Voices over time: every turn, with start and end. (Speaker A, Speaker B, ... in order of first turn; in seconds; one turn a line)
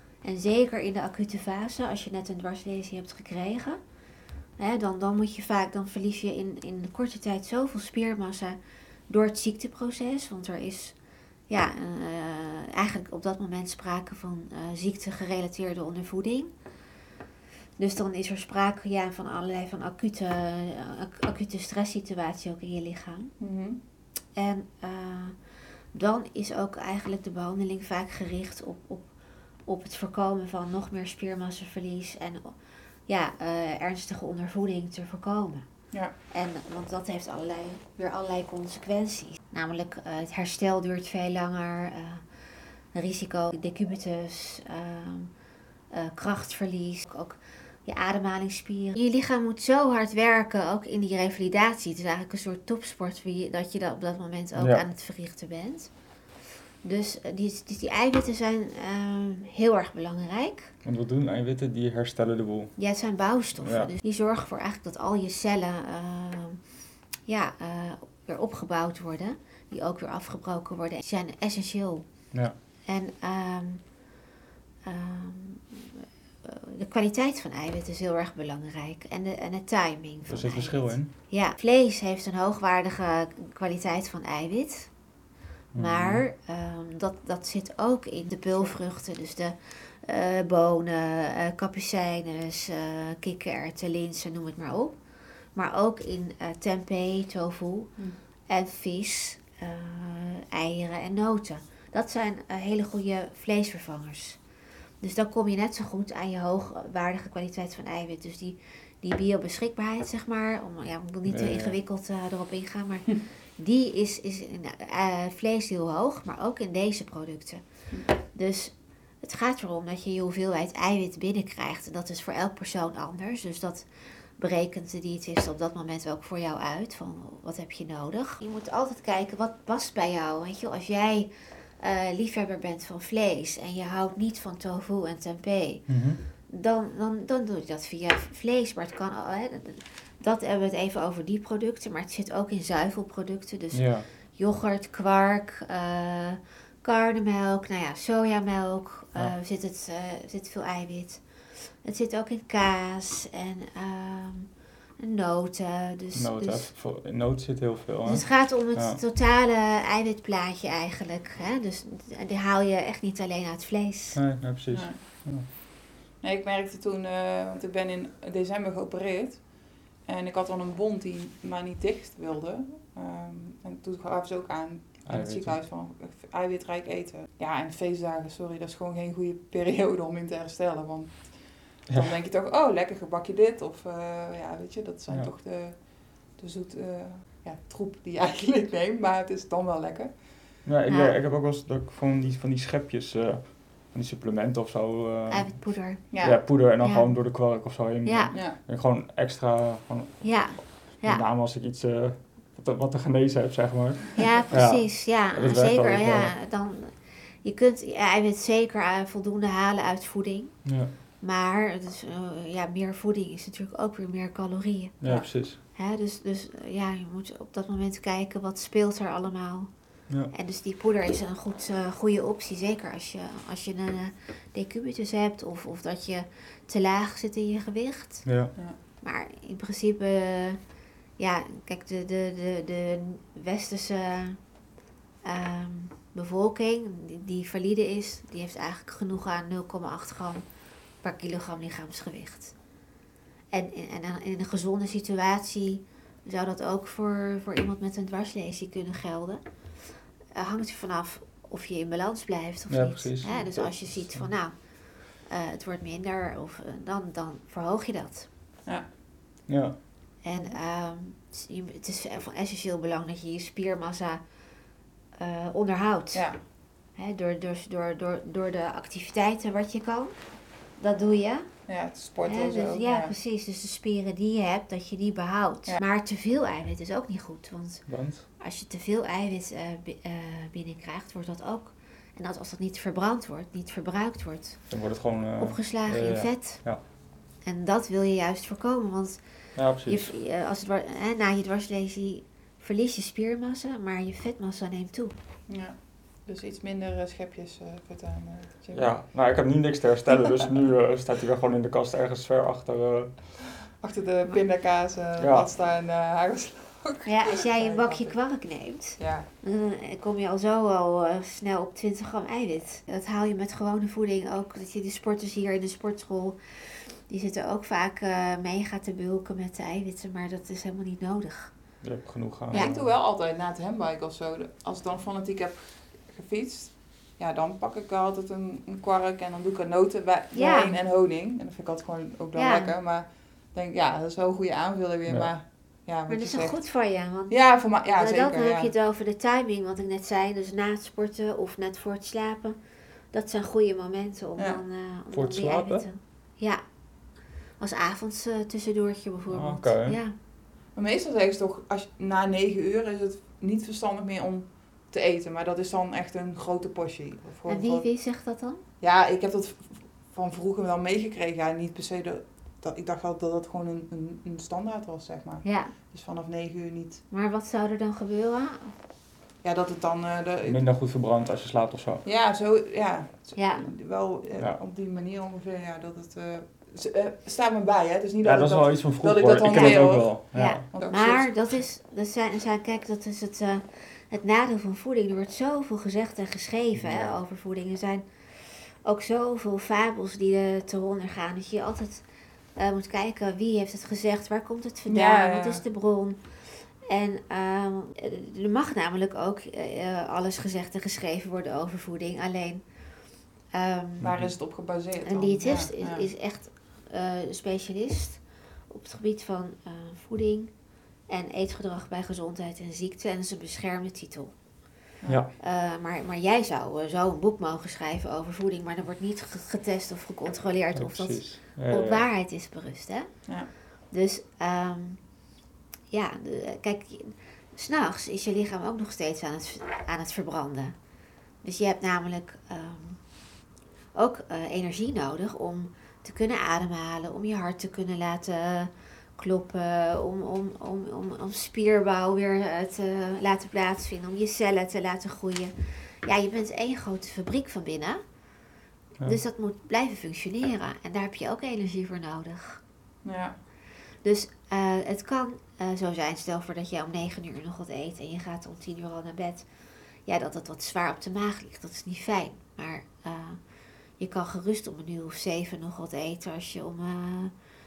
Speaker A: 0.2-3.8
Speaker A: 4.6-16.5
Speaker A: 17.8-23.3
Speaker B: 23.4-23.8
Speaker A: 24.4-45.4
Speaker A: 45.9-55.9
Speaker C: 54.5-54.8
Speaker A: 56.8-60.7
Speaker C: 60.8-62.8
Speaker A: 62.8-66.7
Speaker C: 63.6-63.9
Speaker A: 67.3-72.3
Speaker A: 72.8-74.0
Speaker A: 74.8-75.9
Speaker A: 76.4-85.0
Speaker C: 80.3-81.1
Speaker C: 85.7-86.2
Speaker A: 85.7-95.0
Speaker A: 95.5-104.4
Speaker A: 105.0-156.7
Speaker C: 111.2-111.8
Speaker C: 135.9-136.2
Speaker C: 143.7-144.1
Speaker C: 156.1-159.0
Speaker A: 158.1-164.2
Speaker C: 164.1-165.4
Speaker B: 164.7-165.5
Speaker B: 166.2-190.2
Speaker C: 175.0-175.6
Speaker C: 190.6-206.3
Speaker A: 190.9-191.2
Speaker A: 195.3-198.3
Speaker B: 196.1-196.4
Speaker A: 200.2-201.2
Speaker A: 204.2-234.5
Speaker C: 210.6-210.9
Speaker C: 215.0-215.6
Speaker B: 215.0-215.3
Speaker C: 228.2-228.5
Speaker A: 235.2-240.4
Speaker A: 241.0-242.6
Speaker A: 243.5-249.4
Speaker A: 250.3-258.3
Speaker C: 252.7-254.3
Speaker C: 259.5-259.8
Speaker A: 260.2-264.4
Speaker A: 265.1-271.7
Speaker B: 266.1-266.4
Speaker B: 271.7-273.1
Speaker A: 272.2-295.1
Speaker C: 277.9-278.2
Speaker C: 284.7-286.8
Speaker C: 289.5-290.1
Speaker B: 295.5-298.9
Speaker C: 298.7-303.4
Speaker B: 303.8-308.2
Speaker C: 305.2-305.5
Speaker A: 307.1-321.5
Speaker B: 309.0-309.3
Speaker C: 321.8-322.9
Speaker B: 322.5-338.7
Speaker A: 330.3-330.7
Speaker A: 332.3-332.7
Speaker C: 335.0-335.3
Speaker A: 336.1-342.6
Speaker A: 343.1-346.6
Speaker B: 344.4-344.6
Speaker C: 345.1-345.9
Speaker A: 347.6-350.1
Speaker C: 349.3-350.0
Speaker B: 350.7-357.9
Speaker A: 357.5-358.6
Speaker B: 358.8-367.0
Speaker A: 365.4-365.7
Speaker A: 367.1-368.7
Speaker B: 369.4-370.6
Speaker C: 370.4-372.0
Speaker B: 372.0-381.6
Speaker A: 373.3-373.6
Speaker C: 378.2-380.6
Speaker A: 379.4-392.0
Speaker C: 386.7-387.1
Speaker A: 392.6-402.7
Speaker B: 394.9-395.6
Speaker A: 403.5-404.1
Speaker B: 404.0-406.1
Speaker C: 404.0-404.3
Speaker A: 405.0-414.4
Speaker C: 415.1-415.3
Speaker A: 415.4-425.1
Speaker C: 420.7-422.1
Speaker A: 425.9-430.9
Speaker A: 431.4-433.3
Speaker A: 433.9-448.0
Speaker A: 449.0-452.6
Speaker B: 453.0-453.4
Speaker A: 454.0-459.5
Speaker A: 460.0-463.4
Speaker A: 463.9-467.3